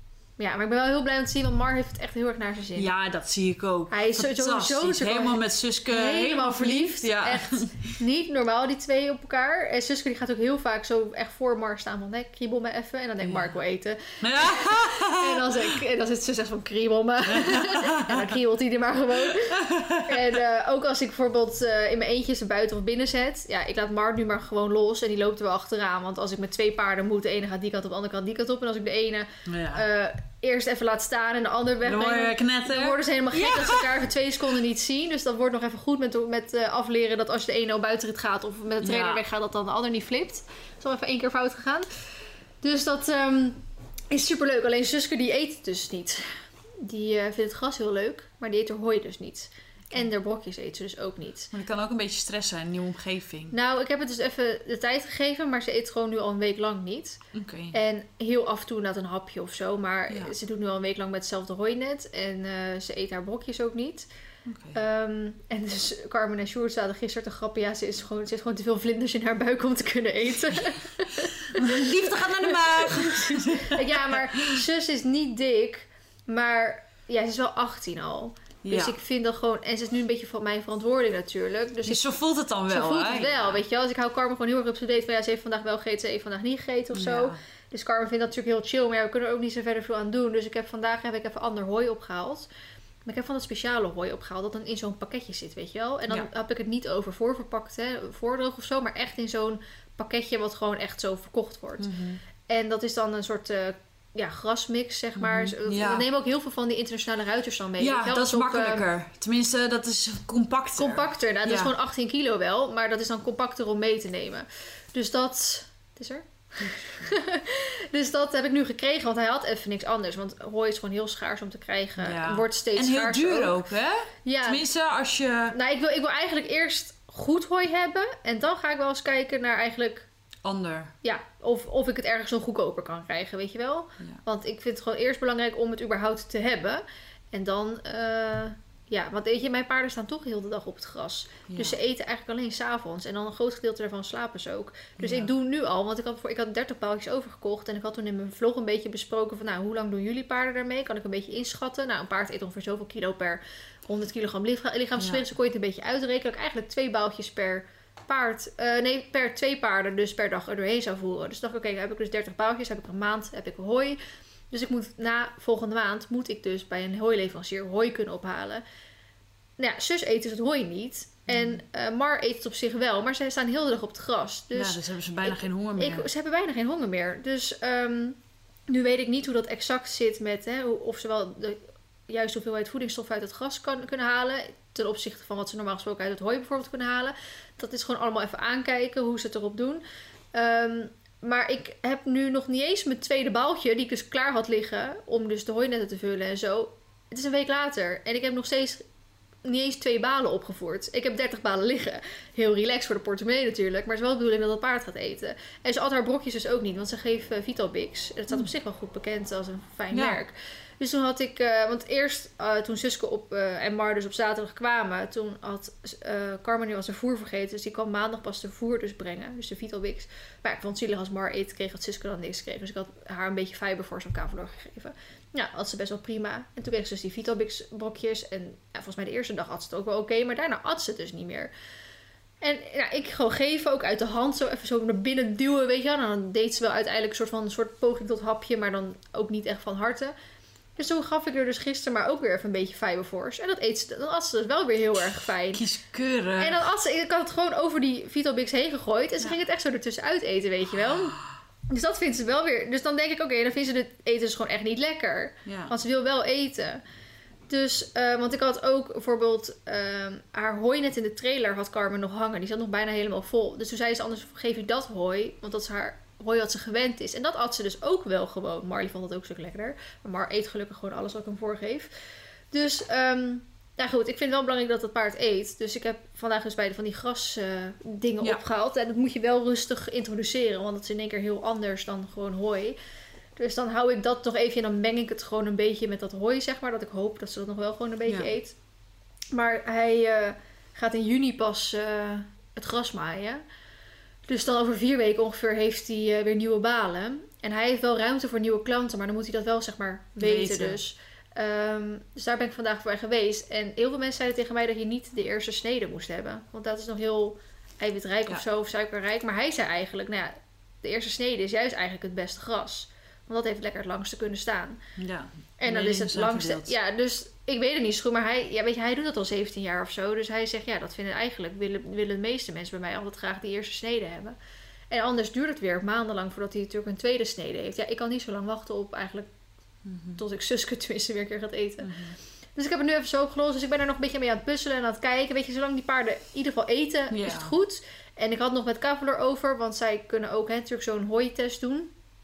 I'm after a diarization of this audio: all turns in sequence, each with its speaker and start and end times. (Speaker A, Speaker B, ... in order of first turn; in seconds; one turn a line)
Speaker A: 0.4-2.9
Speaker B: 2.8-8.0
Speaker A: 3.9-41.9
Speaker B: 13.2-13.5
Speaker B: 14.2-15.8
Speaker B: 17.3-18.4
Speaker B: 19.2-20.4
Speaker B: 29.5-29.8
Speaker B: 31.8-34.0
Speaker B: 38.8-39.2
Speaker A: 42.6-51.5
Speaker B: 51.5-53.5
Speaker A: 53.5-57.2
Speaker B: 57.3-57.8
Speaker A: 57.7-64.1
Speaker B: 64.5-64.8
Speaker A: 64.7-82.1
Speaker B: 71.4-74.6
Speaker B: 78.6-79.0
Speaker B: 81.9-83.6
Speaker A: 82.7-92.5
Speaker B: 86.9-87.4
Speaker A: 93.0-101.9
Speaker B: 101.8-102.2
Speaker A: 102.5-108.8
Speaker B: 105.2-106.1
Speaker B: 107.8-111.7
Speaker A: 110.8-123.6
Speaker B: 116.6-117.1
Speaker B: 122.0-125.6
Speaker A: 124.2-124.7
Speaker A: 125.5-130.1
Speaker B: 130.4-130.9
Speaker A: 131.0-164.0
Speaker B: 141.5-141.8
Speaker B: 145.0-145.3
Speaker B: 155.0-155.2
Speaker A: 164.5-168.6
Speaker A: 169.6-178.2
Speaker B: 171.3-171.6
Speaker B: 174.5-176.1
Speaker A: 178.7-189.8
Speaker A: 190.3-198.8
Speaker A: 199.4-231.5
Speaker B: 209.9-210.2
Speaker A: 232.4-240.1
Speaker A: 240.8-245.7
Speaker B: 245.5-246.6
Speaker A: 246.4-251.2
Speaker B: 250.7-251.4
Speaker A: 251.7-256.8
Speaker B: 255.5-255.7
Speaker A: 257.5-271.9
Speaker A: 272.5-282.8
Speaker A: 283.4-288.6
Speaker A: 289.3-293.4
Speaker A: 294.3-314.8
Speaker B: 300.2-300.8
Speaker B: 315.0-316.7
Speaker A: 315.6-324.4
Speaker A: 324.9-329.3
Speaker B: 329.9-330.2
Speaker A: 330.2-331.9
Speaker B: 331.8-332.2
Speaker A: 332.6-341.9
Speaker B: 337.1-337.5